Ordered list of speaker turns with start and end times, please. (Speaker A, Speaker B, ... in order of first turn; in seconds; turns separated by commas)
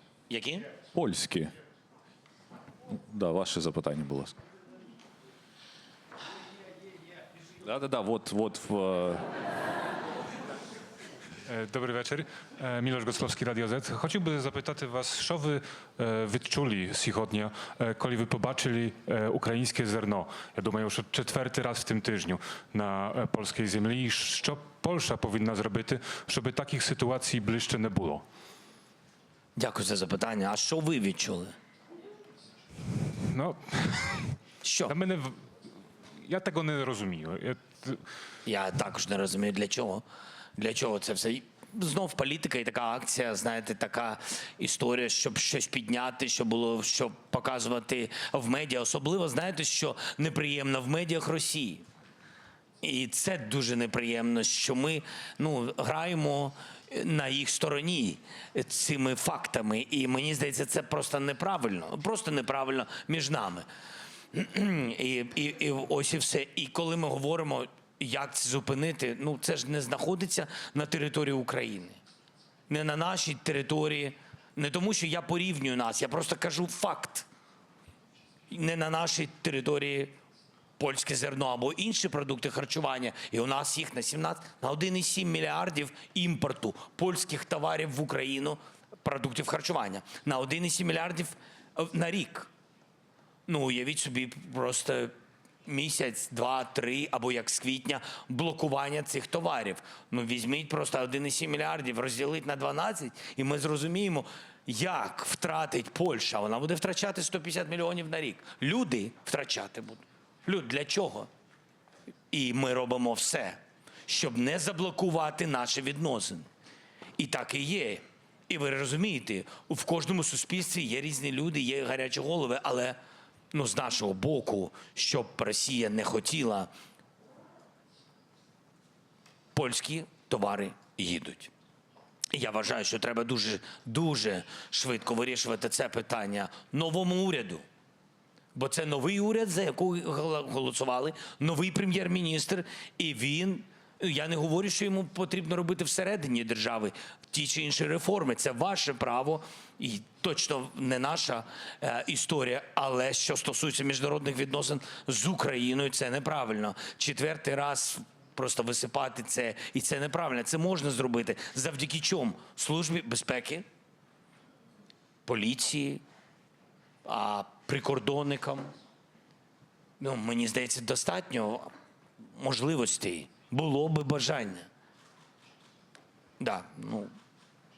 Speaker A: 0.3-0.6, Speaker B: 0.8-1.5, Speaker B: 2.9-4.4, Speaker B: 7.6-9.2, Speaker C: 11.5-28.2, Speaker A: 29.6-31.5, Speaker C: 33.2-34.4, Speaker A: 34.6-35.0, Speaker C: 34.9-35.4, Speaker C: 36.2-38.0, Speaker A: 38.4-40.0, Speaker A: 40.6-51.8, Speaker A: 52.8-63.6, Speaker A: 64.3-72.0, Speaker A: 72.7-77.3, Speaker A: 78.5-80.2, Speaker A: 80.8-92.5, Speaker A: 93.5-95.1, Speaker A: 95.7-111.3, Speaker A: 112.3-116.5, Speaker A: 117.2-123.0, Speaker A: 123.5-126.7, Speaker A: 129.5-131.5, Speaker A: 132.3-137.6, Speaker A: 138.5-163.6, Speaker A: 165.2-166.0, Speaker A: 167.0-168.7, Speaker A: 170.0-171.7, Speaker A: 172.3-174.7, Speaker A: 176.4-177.1